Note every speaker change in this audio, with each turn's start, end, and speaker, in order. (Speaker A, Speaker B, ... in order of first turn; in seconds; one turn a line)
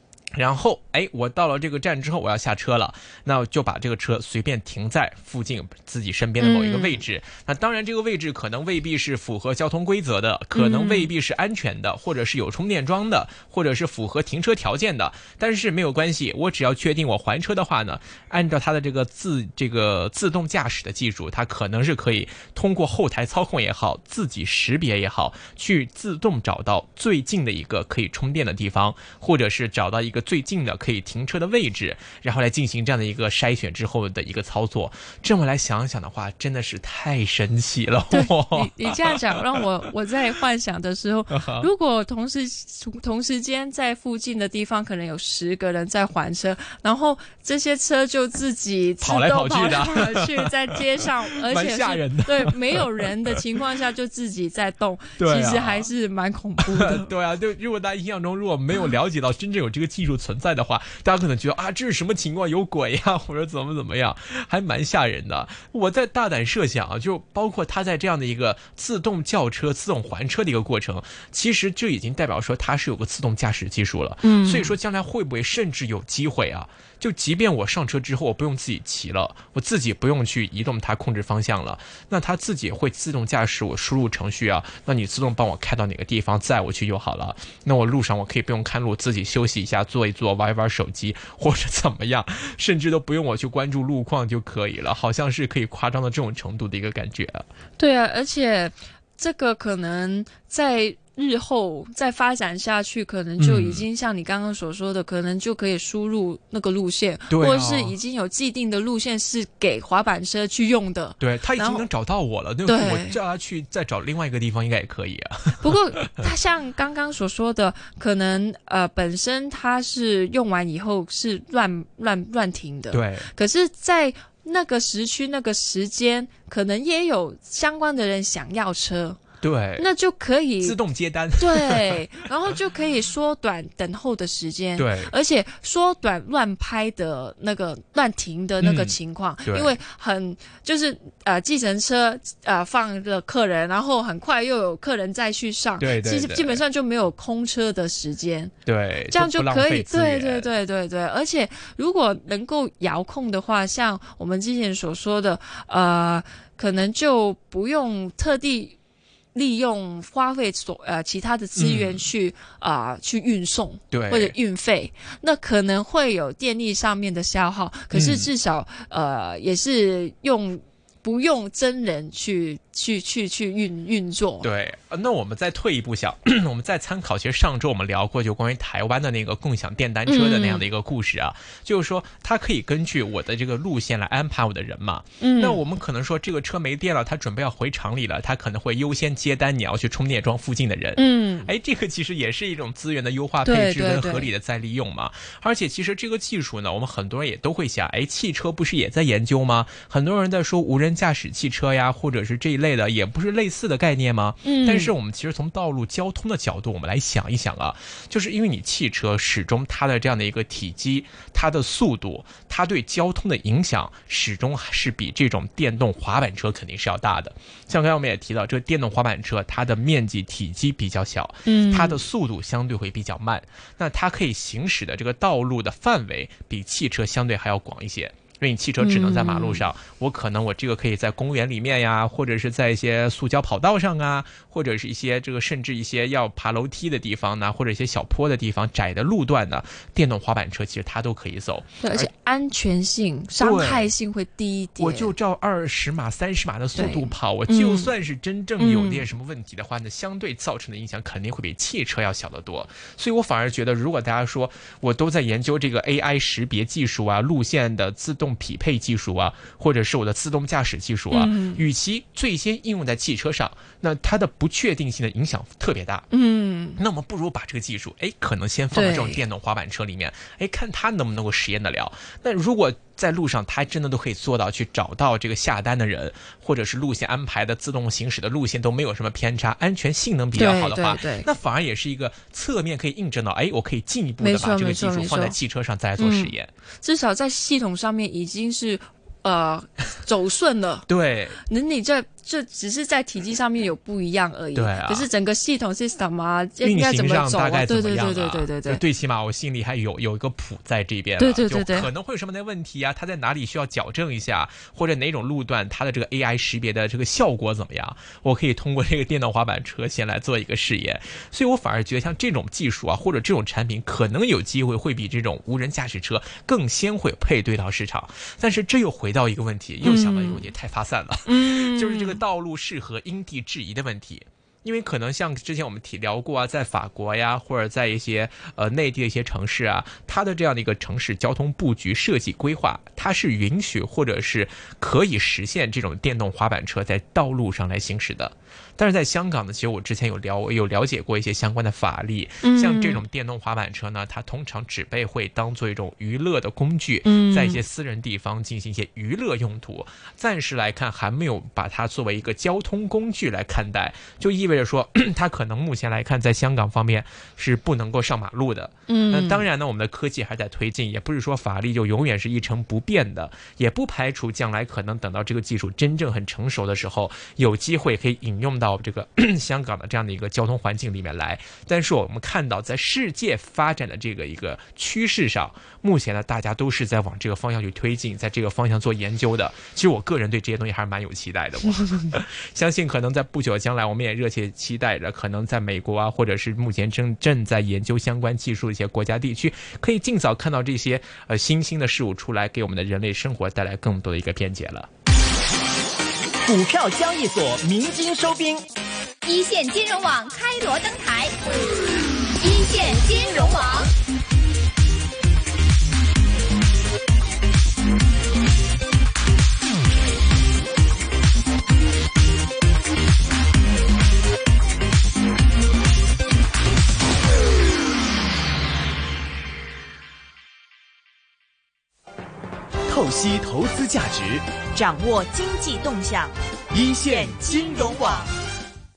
Speaker A: 0.3-39.6
Speaker B: 6.4-7.0
Speaker B: 10.6-11.1
Speaker B: 38.1-57.1
Speaker A: 41.3-41.7
Speaker A: 49.0-53.4
Speaker A: 55.2-55.9
Speaker A: 56.6-97.5
Speaker B: 74.2-74.8
Speaker B: 97.8-111.9
Speaker A: 103.4-103.9
Speaker A: 107.3-108.0
Speaker A: 111.2-116.1
Speaker B: 112.7-113.2
Speaker B: 115.6-129.2
Speaker A: 122.9-123.3
Speaker A: 129.4-129.9
Speaker B: 129.8-130.8
Speaker A: 130.6-132.0
Speaker B: 131.4-148.5
Speaker A: 134.8-135.1
Speaker A: 138.6-138.9
Speaker A: 139.5-139.8
Speaker A: 145.8-146.6
Speaker A: 148.7-150.5
Speaker B: 149.1-158.8
Speaker B: 159.3-174.5
Speaker A: 161.6-162.1
Speaker A: 163.9-164.4
Speaker A: 167.9-168.3
Speaker A: 174.4-242.1
Speaker B: 180.1-180.7
Speaker B: 185.2-185.6
Speaker B: 191.0-191.5
Speaker B: 193.4-194.3
Speaker B: 204.4-204.9
Speaker B: 221.4-222.0
Speaker B: 228.8-229.7
Speaker B: 241.8-245.1
Speaker A: 243.4-243.9
Speaker A: 244.8-266.1
Speaker B: 246.8-247.9
Speaker B: 248.6-249.1
Speaker B: 261.1-261.6
Speaker B: 266.1-266.8
Speaker A: 266.8-286.5
Speaker B: 268.7-269.2
Speaker B: 280.3-281.3
Speaker B: 284.2-285.4
Speaker B: 286.0-290.9
Speaker A: 290.9-291.4
Speaker B: 291.4-298.8
Speaker A: 294.6-295.1
Speaker A: 296.6-394.9
Speaker B: 301.2-301.9
Speaker B: 319.8-320.4
Speaker B: 321.3-322.2
Speaker B: 342.4-343.0
Speaker B: 347.1-347.6
Speaker B: 358.9-359.5
Speaker C: 396.4-398.6
Speaker D: 399.2-401.3
Speaker D: 402.4-403.9
Speaker C: 422.9-424.6
Speaker E: 424.9-426.3
Speaker C: 426.7-428.3
Speaker E: 427.1-427.9